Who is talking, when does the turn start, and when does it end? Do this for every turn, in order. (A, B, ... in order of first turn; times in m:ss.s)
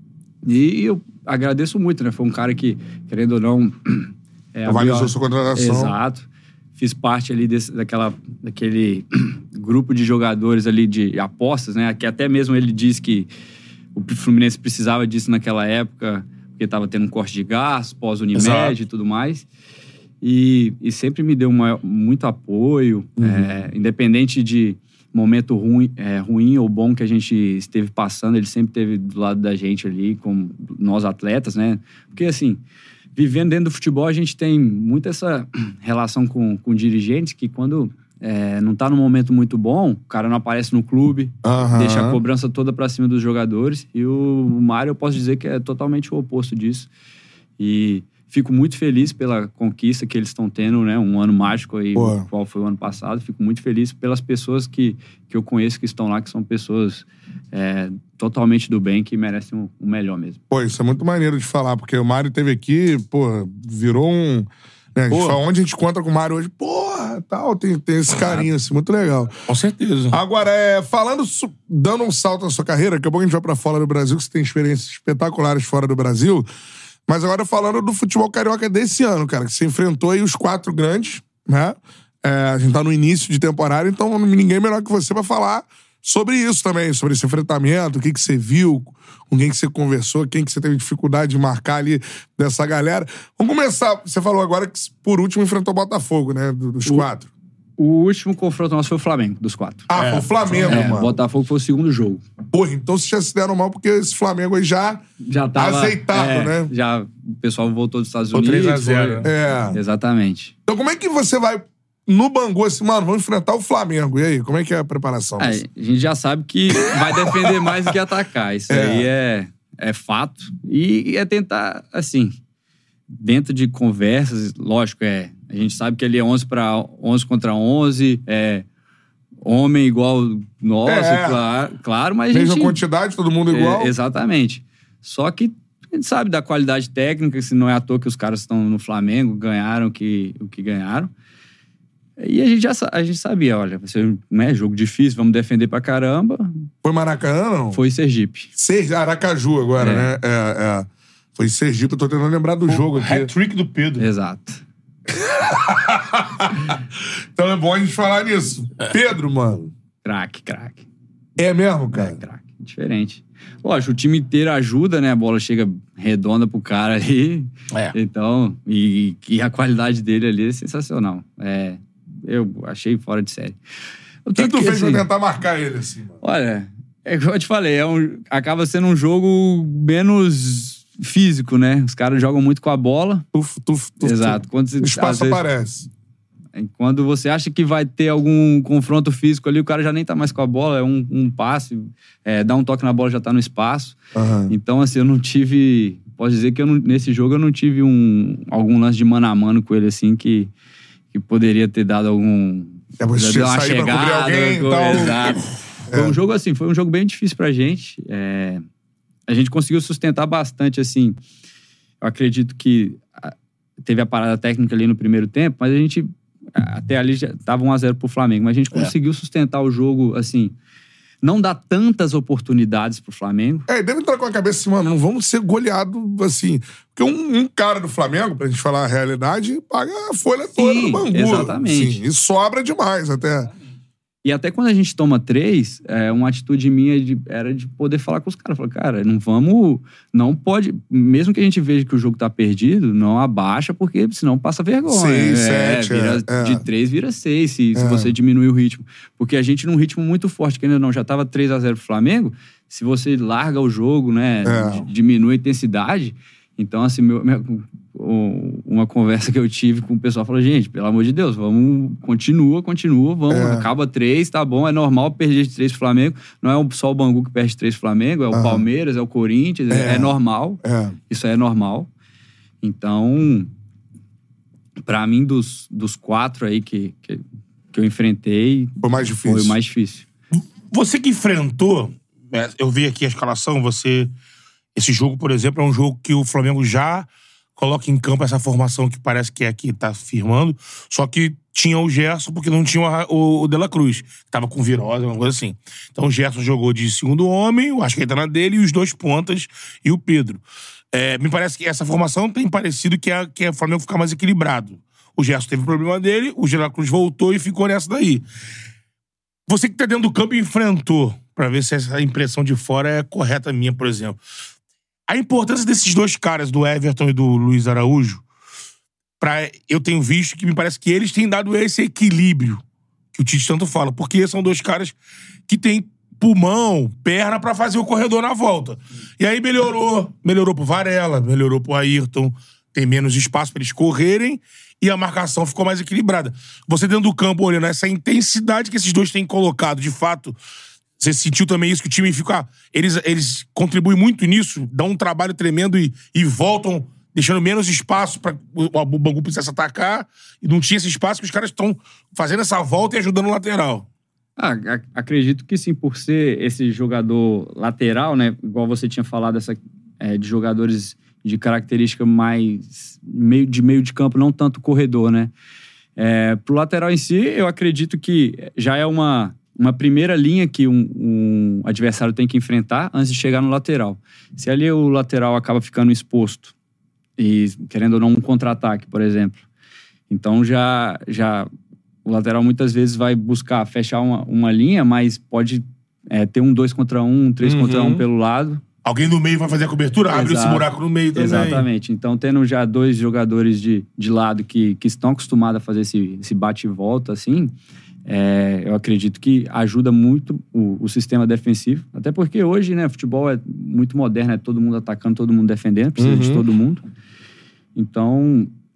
0:00.4-0:13.3 A
0:04.7-0:06.0 B
0:14.0-0:19.5 A
0:18.4-0:18.8 C
0:20.2-0:32.6 A
0:23.2-0:23.5 B
0:33.2-0:46.9 A
0:41.4-0:42.2 B
0:47.6-1:00.4 A
0:52.0-0:52.3 B
1:00.5-1:09.4 B
1:05.1-1:05.4 C
1:09.5-1:10.2 C
1:10.1-1:16.5 B
1:17.1-1:37.3 B
1:37.8-1:39.9 A
1:39.9-1:41.2 B
1:39.9-1:40.8 C
1:40.7-1:42.2 A
1:42.5-1:45.0 B
1:45.2-1:50.5 A
1:45.6-1:46.7 B
1:48.3-1:49.3 C
1:49.2-1:49.8 B
1:50.7-1:55.6 B
1:55.4-2:02.4 A
1:57.0-1:57.9 B
1:58.7-1:59.1 B
2:03.1-2:08.7 A
2:09.4-2:12.8 A
2:10.8-2:11.4 B
2:12.3-2:13.9 B
2:13.5-2:21.1 A
2:22.2-2:26.7 A
2:26.8-2:27.8 B
2:27.7-2:28.5 A
2:28.6-2:33.3 B
2:29.8-2:30.1 A
2:32.7-2:34.1 C
2:34.0-2:34.6 A
2:35.1-2:39.7 B
2:40.0-2:40.9 A
2:41.4-2:42.2 B
2:41.9-2:53.6 A
2:54.2-2:55.1 A
2:54.4-2:56.2 B
2:56.2-3:03.3 A
3:03.3-3:05.9 B
3:04.0-3:05.4 A
3:06.5-3:14.0 A
3:14.2-3:14.5 B
3:14.5-3:20.5 A
3:21.1-3:28.6 A
3:23.0-3:25.3 B
3:25.1-3:25.4 C
3:25.9-3:26.2 B
3:29.3-3:31.2 A
3:32.0-3:40.5 A
3:41.2-3:43.7 A
3:43.7-3:53.5 B
3:50.6-3:52.0 A
3:54.2-4:31.9 A
4:04.9-4:06.6 B
4:07.8-4:08.1 B
4:14.4-4:14.9 B
4:23.3-4:23.7 B
4:28.3-4:28.6 B
4:29.7-4:31.0 B
4:32.6-4:33.5 A
4:34.8-4:37.2 A
4:37.7-4:40.1 A
4:38.8-4:39.6 B
4:40.7-4:44.1 C
4:44.8-5:00.4 C
5:00.9-5:08.2 C
5:09.5-5:14.2 C
5:15.1-5:18.2 C
5:19.2-5:22.6 C
5:23.1-5:25.0 C
5:25.5-5:40.4 C
5:41.0-5:53.9 C
5:54.4-6:05.3 A
6:06.0-6:16.5 A
6:17.2-6:19.4 A
6:20.1-6:21.5 A
6:22.0-6:28.6 A
6:27.4-6:28.0 B
6:28.8-6:31.7 C
6:30.1-6:37.5 A
6:38.1-6:46.8 A
6:46.0-6:46.4 B
6:47.8-6:48.5 A